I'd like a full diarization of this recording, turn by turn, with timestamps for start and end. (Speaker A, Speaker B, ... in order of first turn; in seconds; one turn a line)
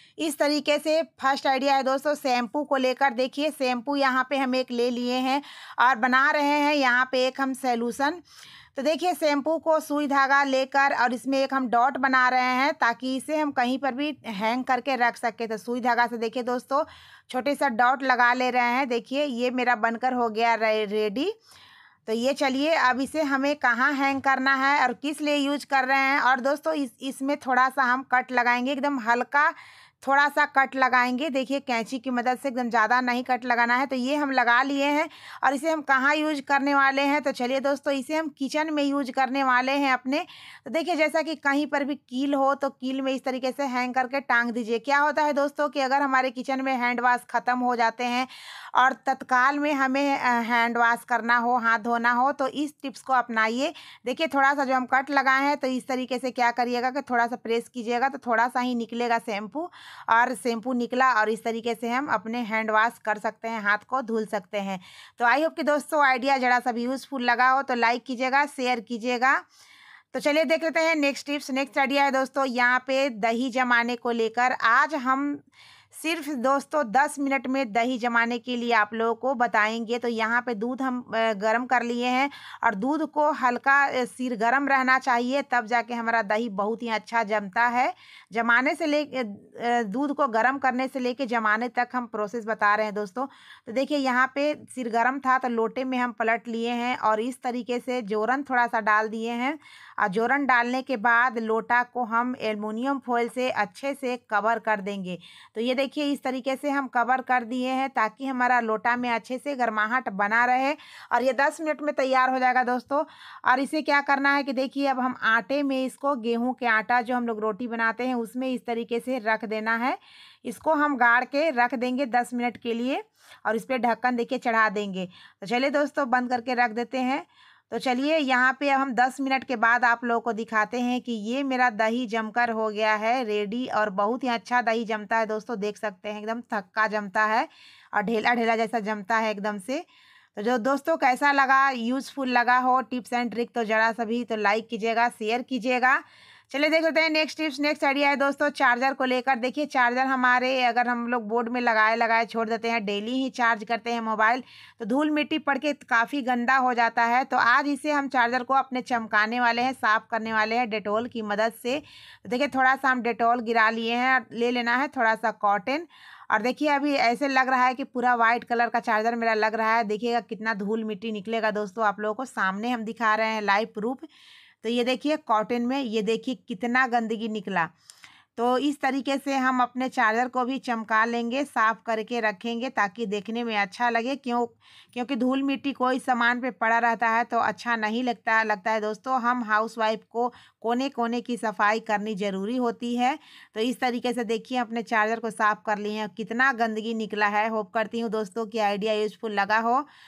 Speaker A: 0.2-8.2
Speaker A: 8.8-21.3
Speaker A: 22.1-69.4
Speaker A: 70.1-75.4
Speaker A: 75.9-139.8
Speaker A: 140.4-174.1
Speaker A: 174.6-177.7
Speaker A: 178.4-199.8